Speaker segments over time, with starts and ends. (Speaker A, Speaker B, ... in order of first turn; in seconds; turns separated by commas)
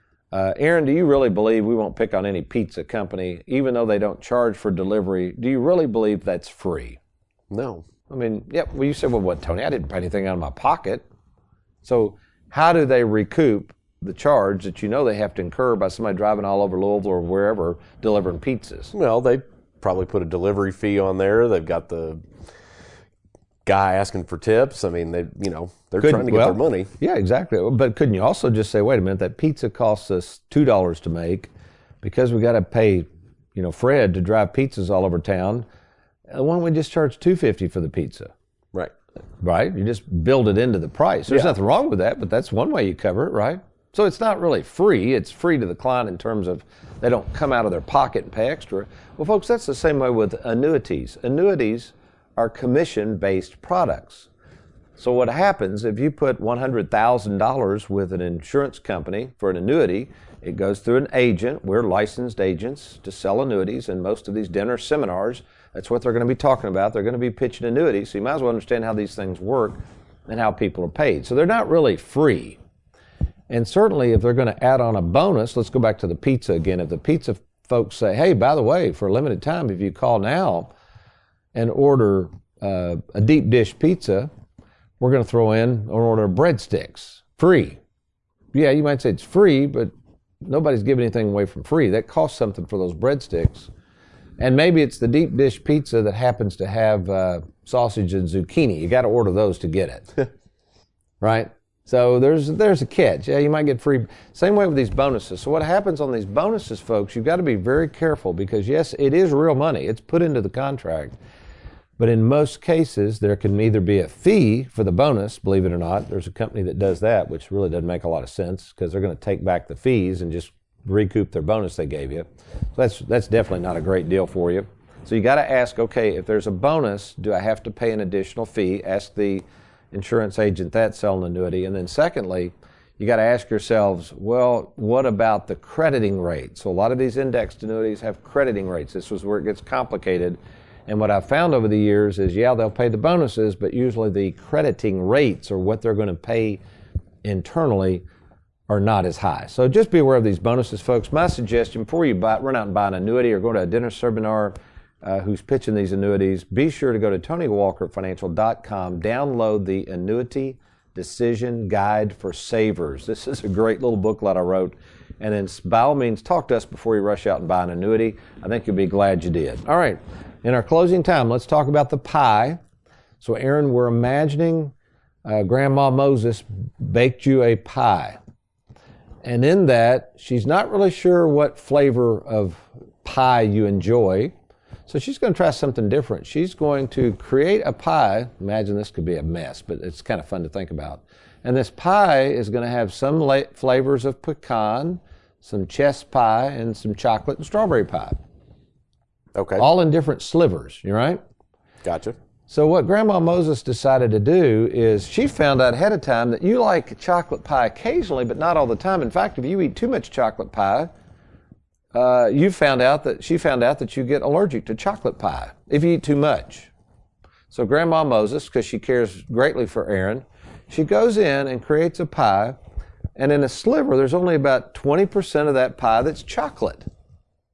Speaker A: 0.3-7.0, Speaker B: 7.5-7.8, Speaker A: 8.1-11.1, Speaker A: 11.8-18.9, Speaker B: 18.9-22.2, Speaker B: 23.6-26.9, Speaker A: 26.0-31.5, Speaker A: 32.0-35.7, Speaker A: 36.3-38.3, Speaker A: 39.4-54.3, Speaker A: 55.0-72.6, Speaker A: 73.5-80.7, Speaker A: 81.5-84.3, Speaker A: 85.0-87.8, Speaker A: 88.5-93.7, Speaker A: 94.4-100.3, Speaker A: 101.2-111.2, Speaker A: 112.0-146.6, Speaker A: 147.2-148.0, Speaker A: 148.7-172.6, Speaker A: 173.2-174.7, Speaker A: 175.2-178.2, Speaker A: 179.2-184.3, Speaker A: 184.9-198.2, Speaker B: 199.3-199.6, Speaker A: 199.6-201.2, Speaker B: 201.8-202.2, Speaker A: 202.5-210.9, Speaker A: 211.9-216.7, Speaker A: 217.5-222.6, Speaker A: 223.2-226.9